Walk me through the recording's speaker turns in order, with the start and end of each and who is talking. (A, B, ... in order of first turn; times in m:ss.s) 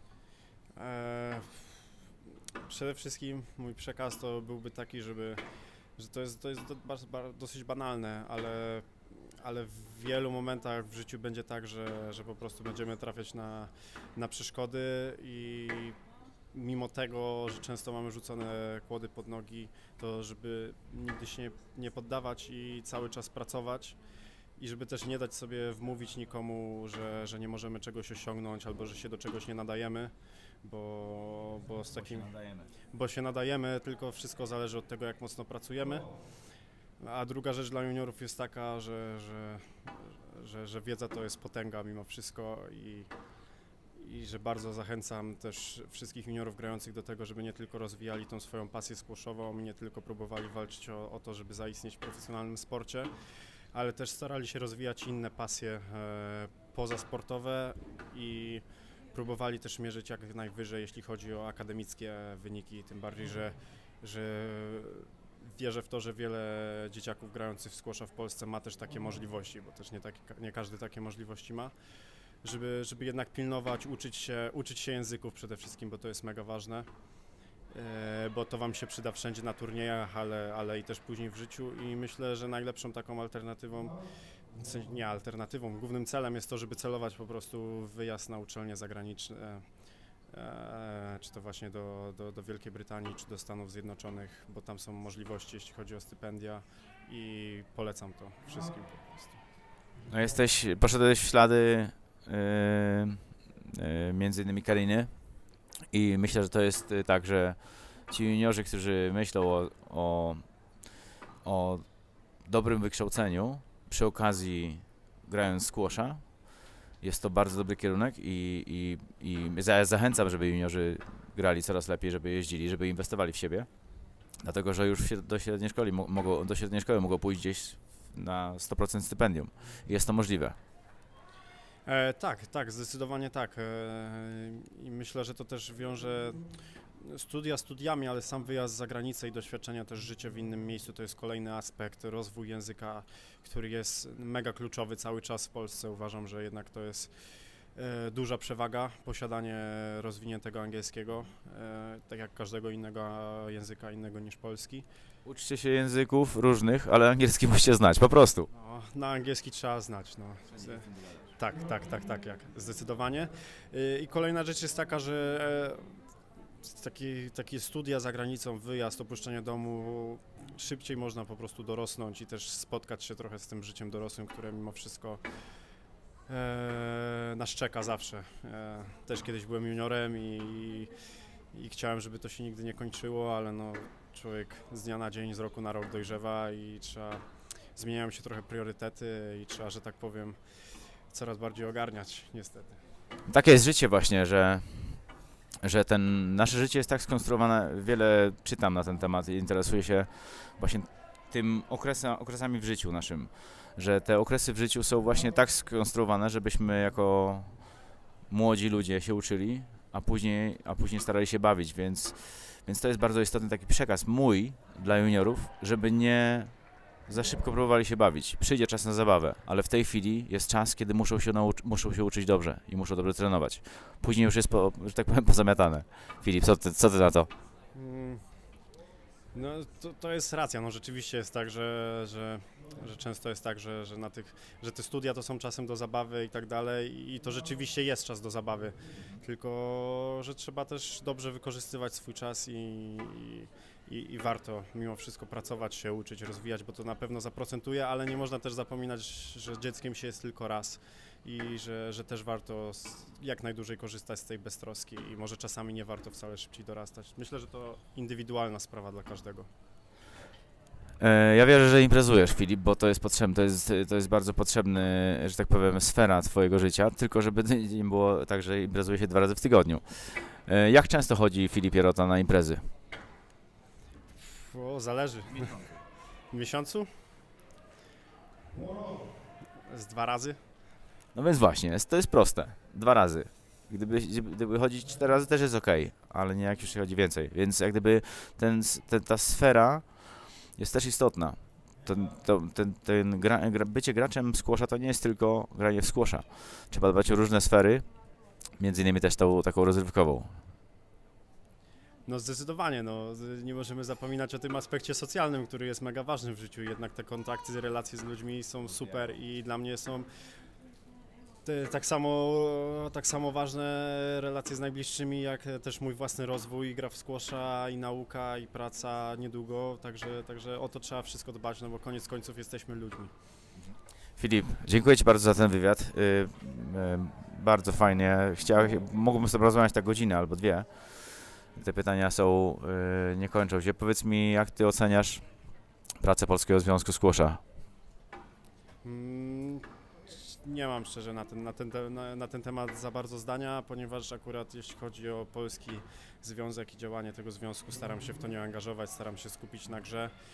0:00.8-0:01.8 A
0:02.6-0:05.4 A
0:06.0-0:16.0 A
0:16.5-0:24.0 A
0:24.6-0:32.3 A
0:32.1-0:32.7 B
0:32.9-0:36.1 A
0:37.0-0:43.1 A
0:44.0-0:53.1 A
0:53.7-1:11.7 A
1:12.4-1:16.9 A
1:17.7-1:24.0 A
1:24.5-1:29.6 A
1:30.3-1:39.4 A
1:40.1-1:45.3 B
1:45.9-1:50.6 B
1:51.4-2:03.7 B
2:04.4-2:10.6 B
2:11.9-2:27.1 A
2:27.7-2:34.9 A
2:35.2-2:38.5 B
2:38.5-2:46.0 A
2:46.6-2:55.2 A
2:56.3-3:00.9 A
3:01.5-3:07.2 A
3:07.8-3:10.4 A
3:11.1-3:12.8 A
3:13.3-3:15.0 B
3:15.6-3:47.3 B
3:47.7-3:48.2 A
3:49.3-4:19.5 A
4:21.0-4:32.7 B
4:34.2-4:35.8 A
4:36.3-4:36.9 A
4:39.7-4:40.4 A
4:41.2-4:57.8 B
4:58.6-5:00.4 B
5:02.0-5:10.1 A
5:11.4-5:23.1 A
5:23.7-5:35.5 B
5:36.0-5:37.4 B
5:38.8-5:50.1 A